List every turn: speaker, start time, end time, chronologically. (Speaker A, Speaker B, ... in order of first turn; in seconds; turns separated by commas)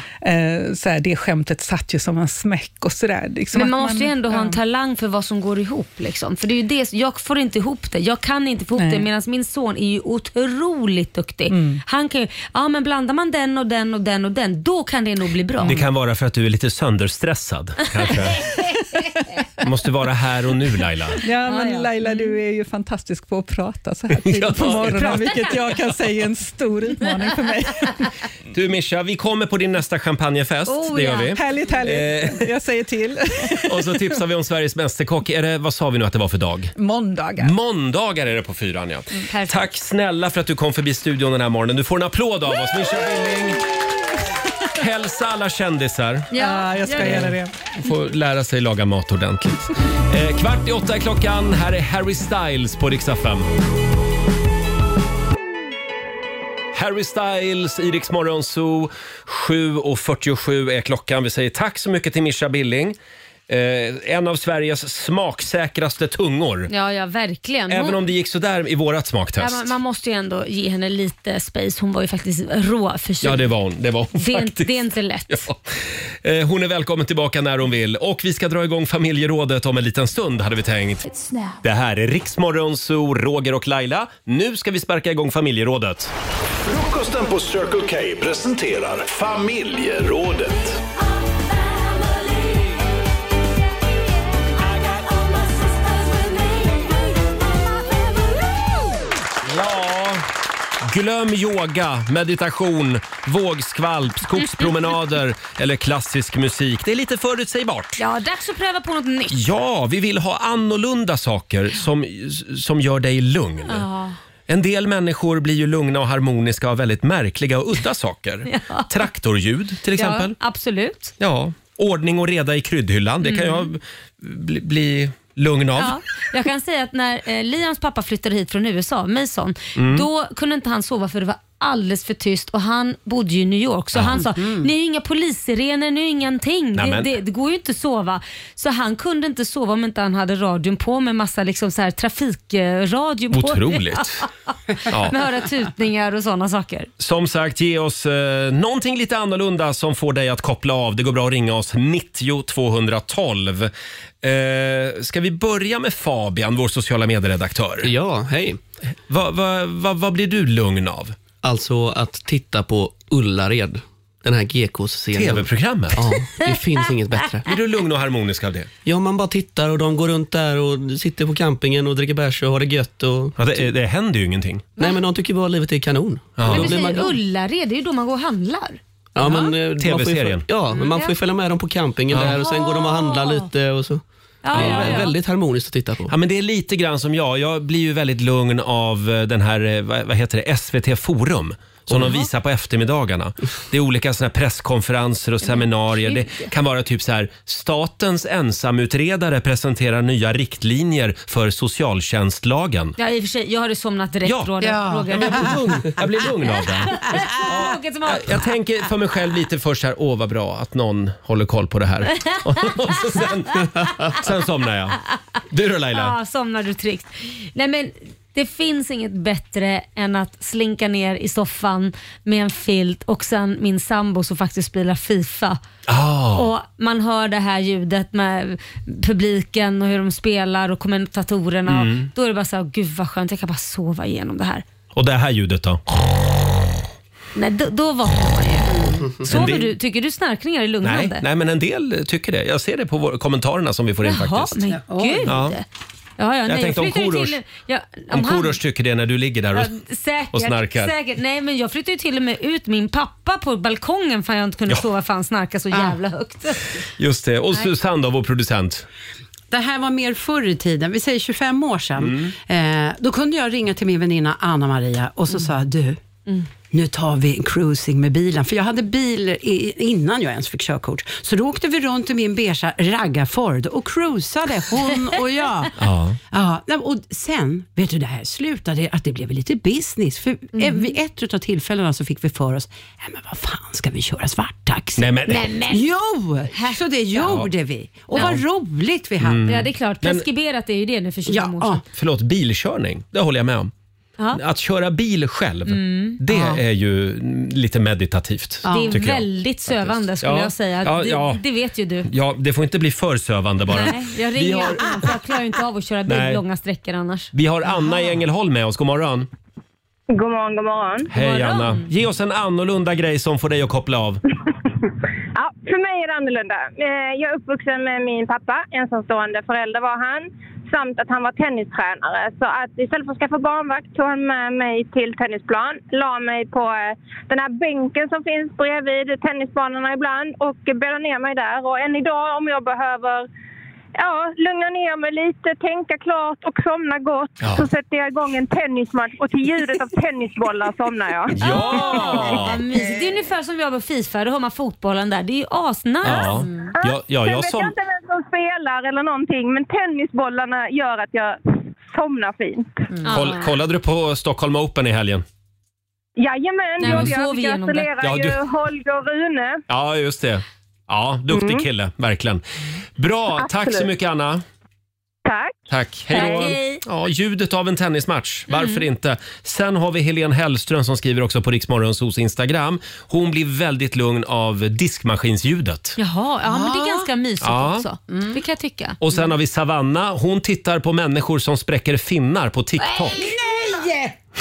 Speaker A: 0.2-4.6, Speaker B: 3.5-15.8, Speaker A: 8.8-9.1, Speaker A: 11.5-11.8, Speaker C: 15.6-18.5, Speaker A: 18.9-19.2, Speaker C: 19.6-21.2, Speaker A: 21.2-28.1, Speaker B: 21.3-22.3, Speaker C: 24.2-25.3, Speaker B: 24.6-25.7, Speaker C: 28.5-32.5, Speaker B: 30.7-31.4, Speaker A: 31.3-34.2, Speaker C: 33.7-36.7, Speaker A: 36.8-37.5, Speaker C: 37.4-43.6, Speaker B: 39.2-39.6, Speaker C: 44.8-46.3, Speaker B: 46.3-47.3, Speaker A: 46.3-47.7, Speaker C: 47.0-53.5, Speaker C: 56.7-63.0, Speaker C: 63.5-66.7, Speaker B: 66.7-68.0, Speaker C: 67.7-69.7, Speaker B: 69.4-73.5, Speaker C: 73.2-75.6, Speaker B: 74.2-75.4, Speaker C: 76.2-81.0, Speaker B: 81.1-81.5, Speaker C: 81.6-86.1, Speaker D: 86.6-90.8, Speaker C: 99.4-100.2, Speaker C: 100.8-108.0, Speaker B: 108.0-109.5, Speaker C: 109.3-113.8, Speaker B: 113.7-114.2, Speaker C: 114.5-120.3, Speaker B: 118.5-118.9, Speaker B: 119.9-121.1, Speaker C: 121.2-126.0, Speaker B: 123.2-123.7, Speaker B: 125.8-146.9, Speaker C: 129.8-130.1, Speaker C: 133.9-134.2, Speaker E: 134.1-134.7, Speaker C: 136.8-137.1, Speaker C: 143.3-144.2, Speaker C: 144.9-145.2, Speaker C: 147.0-153.7, Speaker C: 154.2-157.9, Speaker F: 157.8-158.6, Speaker C: 159.1-161.2, Speaker F: 161.4-167.5, Speaker C: 165.1-166.0, Speaker C: 167.5-168.7, Speaker F: 168.8-173.7, Speaker C: 173.4-174.7, Speaker F: 174.8-177.1, Speaker C: 176.4-176.8, Speaker B: 176.5-179.5, Speaker F: 179.2-186.1, Speaker C: 179.8-180.4, Speaker B: 180.7-181.1, Speaker C: 182.1-182.4, Speaker B: 182.2-183.5, Speaker B: 184.4-185.1, Speaker C: 184.5-185.0, Speaker C: 186.1-202.9, Speaker B: 192.0-192.3, Speaker B: 195.4-196.3, Speaker B: 203.0-205.6, Speaker C: 204.2-204.5, Speaker E: 204.6-205.6, Speaker C: 205.1-216.2, Speaker B: 206.5-208.5, Speaker B: 212.2-212.9, Speaker B: 215.9-225.6, Speaker C: 225.9-226.5, Speaker B: 226.3-234.6, Speaker C: 231.7-232.1, Speaker C: 234.9-235.8, Speaker B: 237.3-241.2, Speaker E: 238.7-239.1, Speaker C: 239.2-239.7, Speaker C: 240.8-244.6, Speaker B: 244.0-245.6, Speaker E: 244.7-245.4, Speaker C: 245.3-245.6, Speaker B: 246.2-248.6, Speaker C: 246.4-247.4, Speaker C: 248.1-249.7, Speaker B: 249.5-256.6, Speaker C: 250.3-250.9, Speaker E: 255.7-256.0, Speaker C: 257.0-258.8, Speaker E: 259.5-266.0, Speaker C: 262.0-262.3, Speaker E: 266.7-275.7, Speaker C: 275.8-276.2, Speaker E: 276.3-289.5, Speaker B: 280.5-280.9, Speaker C: 285.0-285.5, Speaker B: 285.3-285.8, Speaker B: 286.5-286.8, Speaker C: 287.2-287.5, Speaker B: 288.1-288.4, Speaker C: 288.1-288.4, Speaker C: 289.2-290.2, Speaker B: 289.5-291.8, Speaker E: 291.2-291.8, Speaker C: 291.9-293.7, Speaker C: 294.3-301.4, Speaker B: 295.7-296.2, Speaker E: 296.3-296.6, Speaker E: 298.6-299.0, Speaker B: 298.7-302.1, Speaker C: 302.1-305.1, Speaker B: 303.7-307.3, Speaker C: 306.1-306.4, Speaker C: 307.3-309.3, Speaker G: 310.1-311.1, Speaker C: 311.1-314.2, Speaker B: 311.1-311.9, Speaker G: 315.3-333.2, Speaker G: 333.9-342.2, Speaker C: 337.4-337.7, Speaker C: 341.3-342.6, Speaker B: 341.4-346.5, Speaker C: 346.0-347.7, Speaker G: 346.8-351.4, Speaker G: 351.9-352.9, Speaker B: 353.0-353.5, Speaker C: 353.1-355.2, Speaker G: 356.2-359.6, Speaker B: 356.8-357.9, Speaker C: 358.0-358.4, Speaker C: 359.7-362.4, Speaker G: 361.3-361.6, Speaker C: 363.0-364.4, Speaker G: 365.2-365.5, Speaker C: 365.7-376.0, Speaker B: 366.1-366.8, Speaker B: 368.5-368.8, Speaker B: 376.0-379.0, Speaker E: 376.4-377.1, Speaker C: 377.4-377.9, Speaker E: 378.1-378.4, Speaker C: 379.0-383.3, Speaker E: 382.9-384.1